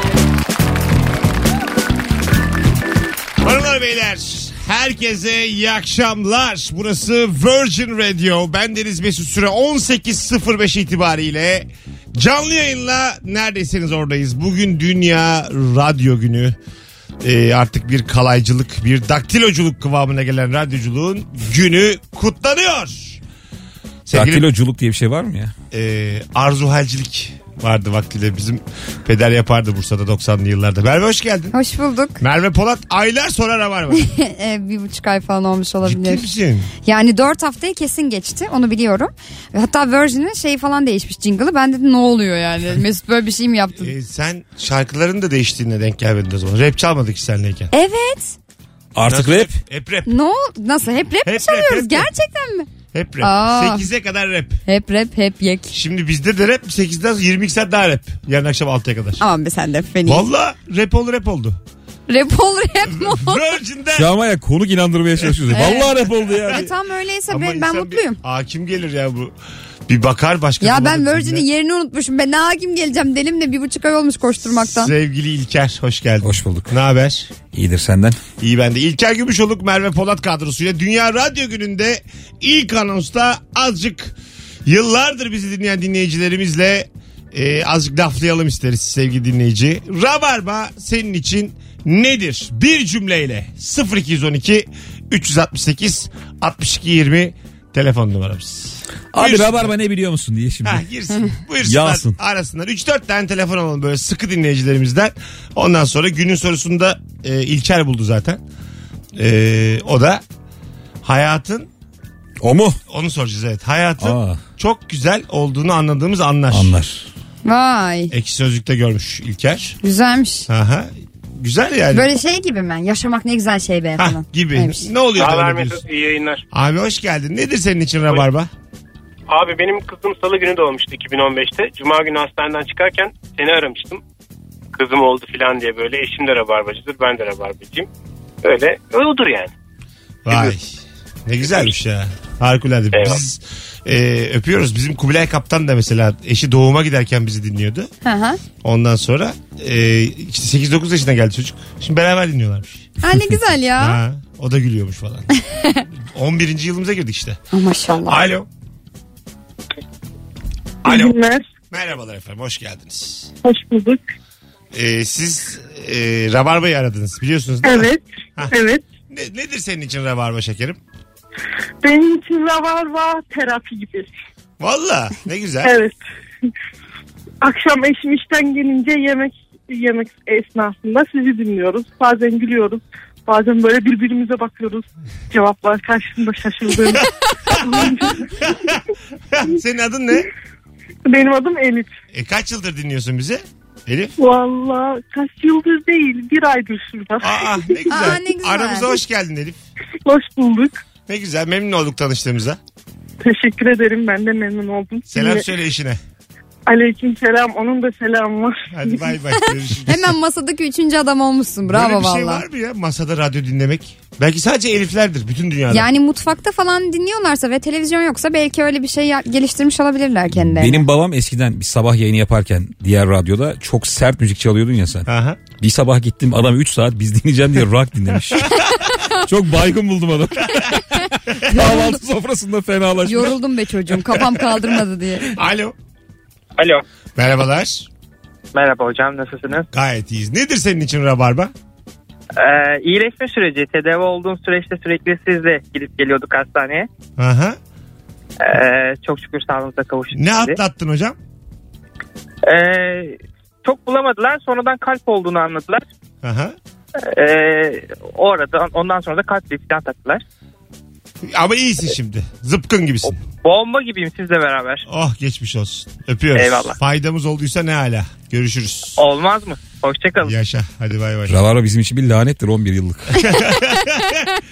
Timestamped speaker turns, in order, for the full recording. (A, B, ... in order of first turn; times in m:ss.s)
0:03.4-0:16.6 A
0:17.2-0:23.2 A
0:24.0-0:24.4 A
0:24.1-0:25.5 B
0:25.7-0:31.5 A
0:31.5-0:32.2 C
0:32.2-0:34.1 A
0:33.9-0:36.3 C
0:35.8-0:36.7 A
0:36.8-0:43.9 C
0:43.8-0:47.7 A
0:47.7-0:48.4 C
0:48.9-0:49.5 B
0:49.0-0:50.1 A
0:50.1-0:52.7 C
0:51.2-0:52.1 A
0:52.9-0:54.6 A
0:53.2-0:53.9 C
0:54.6-0:55.7 C
0:55.7-0:59.2 A
0:59.2-1:00.3 C
1:00.0-1:01.6 A
1:02.1-1:03.4 C
1:02.8-1:04.1 A
1:03.9-1:06.7 B
1:05.5-1:08.2 C
1:07.3-1:09.3 A
1:09.9-1:11.4 A
1:10.6-1:14.9 C
1:14.5-1:17.3 A
1:16.2-1:16.7 B
1:17.5-1:18.2 B
1:18.4-1:24.1 A
1:24.6-1:39.7 A
1:39.1-1:40.8 B
1:40.6-1:48.4 A
1:41.6-1:42.2 B
1:49.1-1:50.2 A
1:51.0-1:51.7 A
1:52.4-1:52.8 B
1:52.9-1:56.8 A
1:54.0-1:54.4 B
1:56.5-1:57.0 B
1:57.4-1:58.1 C
1:58.1-1:59.8 A
1:59.8-2:00.5 C
2:00.5-2:02.1 A
2:01.9-2:04.9 C
2:04.0-2:05.8 A
2:05.2-2:06.4 D
2:06.5-2:08.5 A
2:09.3-2:14.0 D
2:14.7-2:17.9 D
2:18.4-2:19.5 D
2:20.2-2:27.9 A
2:20.3-2:20.5 D
2:22.9-2:23.2 D
2:28.0-2:28.4 C
2:28.6-2:33.0 A
2:33.0-2:34.0 C
2:33.8-2:35.3 A
2:35.5-2:35.8 C
2:36.0-2:37.4 A
2:37.5-2:38.2 C
2:38.0-2:38.5 A
2:40.8-2:43.3 A
2:40.8-2:41.4 E
2:43.4-2:44.0 E
2:44.7-2:48.6 A
2:47.6-2:48.8 E
2:49.1-2:50.8 A
2:51.8-2:54.1 E
2:54.6-2:55.8 A
2:55.6-2:56.0 E
2:57.4-3:08.5 E
3:07.5-3:10.3 A
3:11.1-3:11.9 E
3:12.1-3:14.1 A
3:14.2-3:18.0 E
3:17.2-3:19.6 A
3:17.9-3:18.9 C
3:20.0-3:20.8 E
3:21.1-3:22.6 A
3:23.2-3:25.5 E
3:25.1-3:26.0 A
3:26.7-3:29.0 E
3:28.7-3:30.1 A
3:29.9-3:32.4 C
3:31.6-3:35.9 A
3:35.7-3:40.9 C
3:40.3-3:48.6 B
3:45.1-3:45.4 A
3:49.1-3:53.4 B
3:51.5-3:51.9 C
3:53.0-3:55.4 C
3:55.3-3:55.7 A
3:56.6-3:56.8 F
3:57.2-3:57.9 A
3:58.5-3:59.6 F
3:59.7-4:01.5 A
4:02.4-4:06.9 F
4:07.2-4:07.6 A
4:08.4-4:10.6 F
4:10.1-4:11.2 A
4:12.4-4:15.8 F
4:16.2-4:16.5 A
4:17.0-4:20.2 F
4:21.2-4:23.2 A
4:23.4-4:24.8 F
4:24.8-4:29.0 A
4:26.3-4:26.8 F
4:29.0-4:30.3 F
4:30.2-4:31.4 A
4:31.3-4:33.3 B
4:33.2-4:34.3 A